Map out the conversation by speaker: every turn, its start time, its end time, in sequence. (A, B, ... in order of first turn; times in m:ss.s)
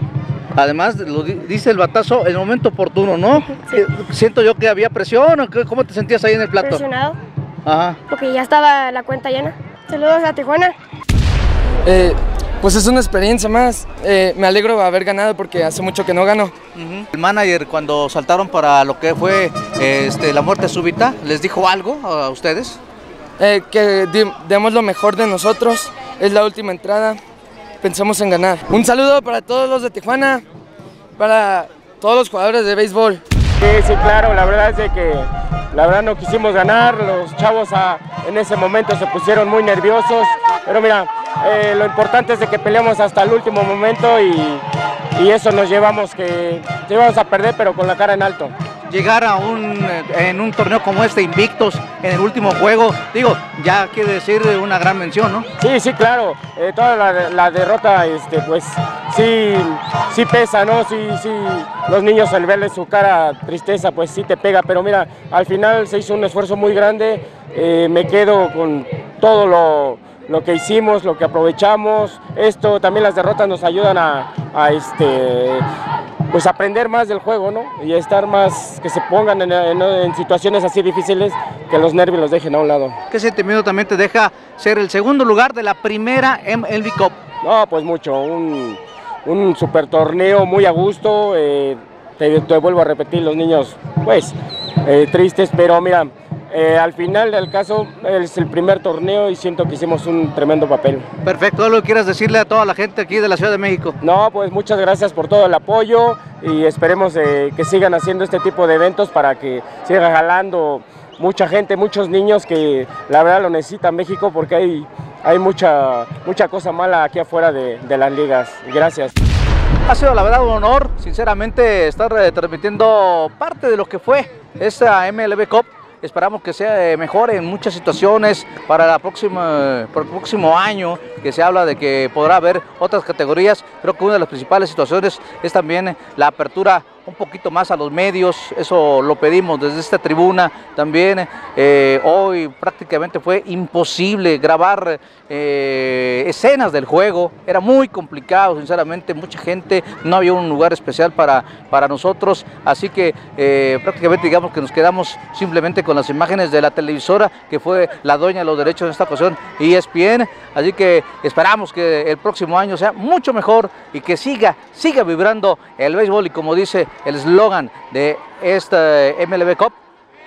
0:00.6-0:06.9 A
0:03.6-0:03.8 B
0:06.6-0:07.2 B
0:07.6-0:08.0 A
0:08.1-0:10.8 B
0:11.9-0:16.6 C
0:16.7-0:22.8 A
0:23.4-0:27.2 C
0:27.8-0:30.4 C
0:31.2-0:33.2 C
0:33.6-0:44.6 D
0:45.1-0:48.5 D
0:48.9-0:55.5 A
0:55.6-1:15.6 D
1:16.3-1:23.0 D
1:23.1-1:27.1 A
1:27.4-1:41.1 D
1:41.2-1:43.9 A
1:44.0-1:59.1 D
1:59.9-2:49.8 A